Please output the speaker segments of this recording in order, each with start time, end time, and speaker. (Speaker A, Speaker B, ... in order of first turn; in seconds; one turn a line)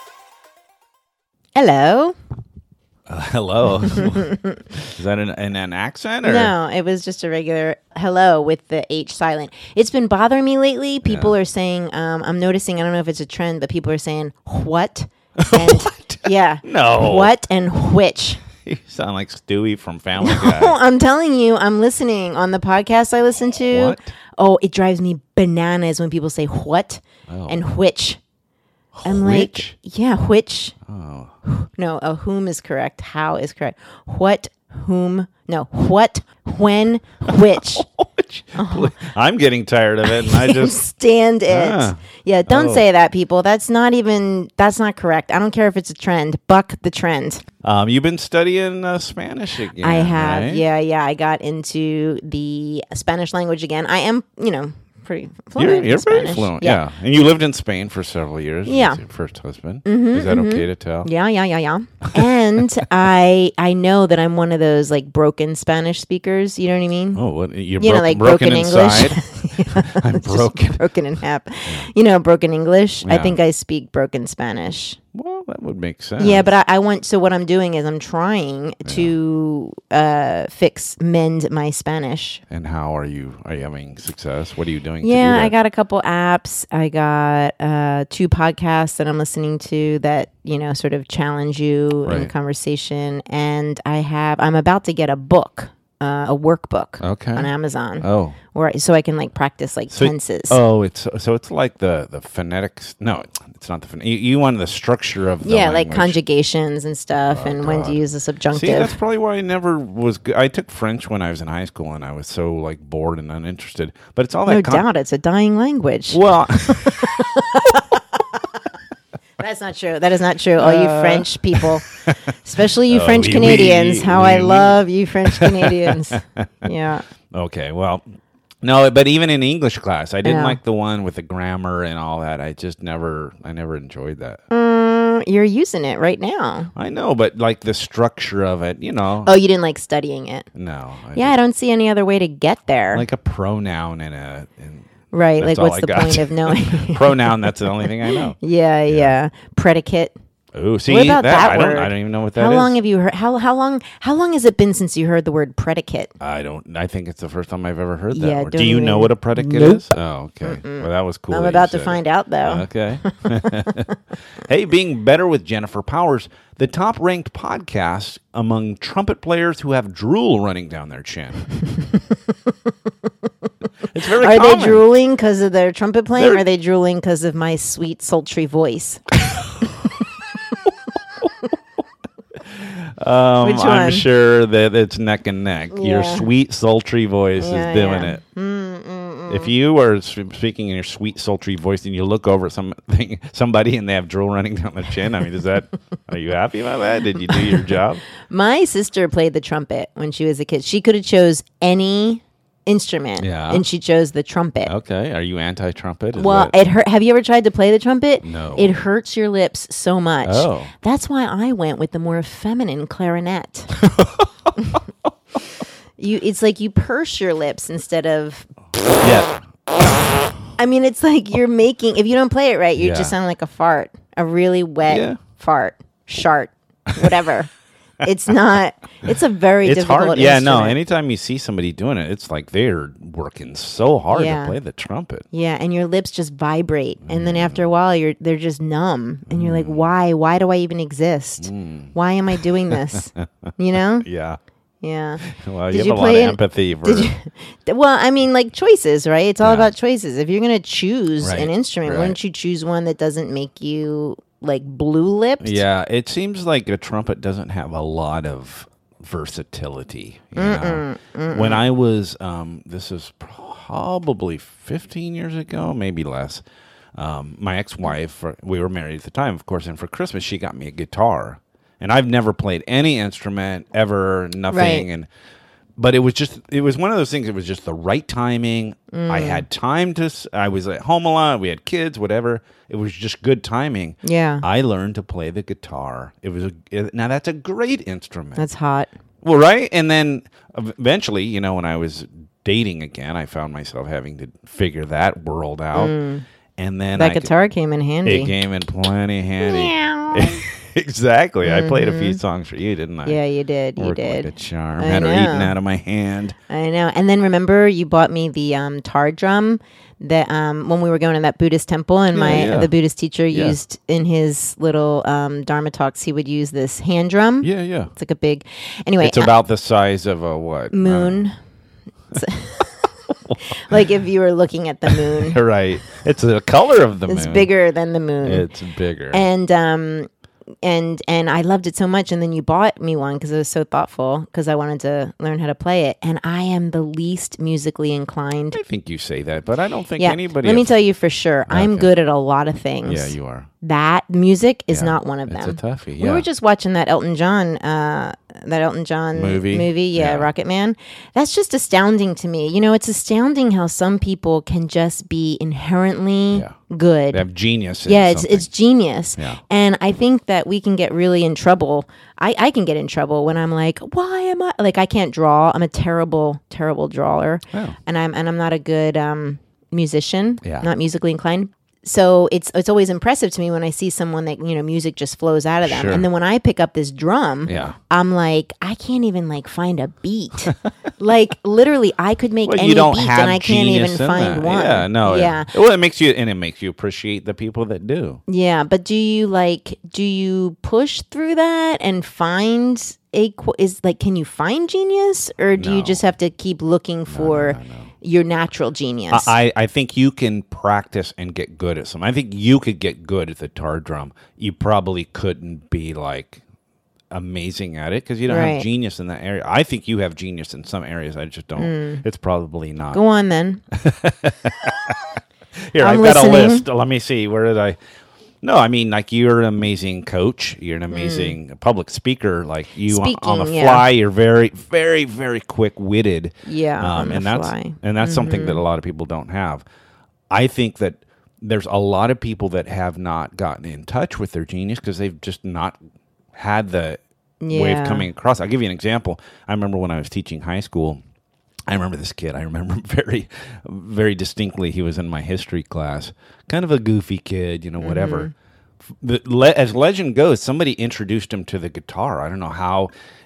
Speaker A: 1.6-2.2
Speaker B: 3.1-6.5
Speaker A: 3.9-4.6
Speaker A: 6.2-18.4
Speaker B: 11.1-11.3
Speaker B: 15.4-17.3
Speaker B: 18.6-20.8
Speaker A: 20.2-28.2
Speaker B: 23.7-24.1
Speaker B: 27.3-27.6
Speaker B: 28.9-29.7
Speaker A: 29.0-30.8
Speaker B: 30.9-31.3
Speaker A: 31.4-37.9
Speaker B: 37.3-40.8
Speaker A: 38.6-38.9
Speaker A: 40.1-47.4
Speaker B: 41.5-42.8
Speaker B: 47.6-50.7
Speaker A: 49.8-56.8
Speaker B: 55.6-61.1
Speaker A: 58.7-59.0
Speaker A: 59.9-67.2
Speaker B: 67.2-70.8
Speaker A: 67.8-75.0
Speaker B: 73.0-73.4
Speaker B: 75.2-76.5
Speaker A: 76.2-82.4
Speaker B: 78.8-79.1
Speaker B: 82.5-85.5
Speaker A: 85.0-100.6
Speaker B: 92.1-92.3
Speaker B: 97.0-97.5
Speaker B: 98.0-98.4
Speaker B: 99.9-106.2
Speaker A: 105.4-109.0
Speaker B: 107.3-108.0
Speaker B: 108.5-114.8
Speaker A: 114.5-116.2
Speaker B: 116.1-117.1
Speaker A: 117.0-118.2
Speaker A: 119.4-121.8
Speaker B: 120.6-122.3
Speaker A: 122.4-127.0
Speaker B: 122.9-126.4
Speaker B: 127.3-128.0
Speaker B: 128.6-134.4
Speaker A: 130.2-130.6
Speaker A: 134.5-136.7
Speaker B: 136.8-139.3
Speaker A: 139.2-140.5
Speaker B: 140.5-141.4
Speaker A: 141.1-143.1
Speaker B: 142.9-144.9
Speaker A: 145.1-150.2
Speaker B: 145.4-148.4
Speaker B: 148.9-149.2
Speaker B: 150.6-152.8
Speaker A: 150.9-156.1
Speaker B: 156.2-171.5
Speaker A: 158.1-163.9
Speaker B: 173.9-174.9
Speaker A: 174.2-179.0
Speaker B: 176.2-176.4
Speaker B: 182.5-188.2
Speaker A: 183.4-184.1
Speaker A: 185.7-186.3
Speaker A: 187.4-189.5
Speaker B: 189.3-198.0
Speaker A: 198.3-204.7
Speaker B: 203.2-203.6
Speaker B: 204.7-206.6
Speaker A: 206.2-213.8
Speaker B: 208.2-208.7
Speaker B: 210.2-210.7
Speaker B: 214.0-214.3
Speaker A: 216.0-218.5
Speaker B: 219.0-219.4
Speaker A: 220.6-227.5
Speaker B: 222.8-223.1
Speaker B: 224.9-225.2
Speaker A: 228.0-230.8
Speaker B: 229.6-235.2
Speaker A: 234.1-234.6
Speaker A: 235.3-244.1
Speaker B: 237.1-237.7
Speaker B: 239.3-239.9
Speaker B: 241.4-243.3
Speaker B: 244.0-244.4
Speaker A: 244.8-255.6
Speaker B: 245.2-247.1
Speaker B: 249.4-249.7
Speaker B: 251.2-252.2
Speaker B: 255.4-266.4
Speaker A: 260.4-261.6
Speaker B: 267.0-275.1
Speaker A: 274.5-274.9
Speaker B: 275.8-288.5
Speaker A: 278.9-279.5
Speaker A: 284.0-284.4
Speaker A: 288.4-288.9
Speaker B: 289.2-295.9
Speaker A: 295.8-296.2
Speaker B: 296.6-297.3
Speaker A: 297.0-298.4
Speaker B: 298.1-303.2
Speaker A: 299.4-300.4
Speaker A: 301.4-302.2
Speaker A: 303.1-305.6
Speaker B: 303.8-306.4
Speaker A: 306.5-319.3
Speaker B: 312.1-312.7
Speaker B: 313.3-313.6
Speaker B: 317.4-317.9
Speaker B: 319.0-321.2
Speaker A: 320.7-321.4
Speaker A: 322.1-322.8
Speaker A: 323.5-325.4
Speaker B: 325.2-327.5
Speaker A: 327.1-328.5
Speaker B: 328.2-329.3
Speaker A: 329.1-330.1
Speaker A: 330.6-338.6
Speaker B: 338.5-340.8
Speaker A: 340.0-357.2
Speaker B: 341.5-341.9
Speaker B: 342.9-343.5
Speaker B: 344.7-346.3
Speaker B: 349.1-350.3
Speaker B: 357.1-358.5
Speaker A: 357.9-385.5
Speaker B: 370.4-370.7
Speaker B: 375.6-376.1
Speaker B: 377.5-377.8
Speaker B: 382.4-388.2
Speaker A: 388.3-399.3
Speaker B: 395.6-396.0
Speaker B: 397.1-397.9
Speaker B: 399.1-406.4
Speaker B: 407.1-413.0
Speaker A: 408.3-408.7
Speaker A: 411.6-412.0
Speaker A: 412.9-413.6
Speaker B: 413.7-415.0
Speaker B: 415.7-417.8
Speaker A: 415.8-416.6
Speaker B: 418.4-429.6
Speaker A: 420.9-421.4
Speaker A: 422.9-423.9
Speaker A: 426.5-428.6
Speaker B: 430.3-435.8
Speaker B: 436.4-441.0
Speaker A: 437.4-438.1
Speaker B: 441.7-448.3
Speaker A: 447.8-448.3
Speaker B: 449.0-452.9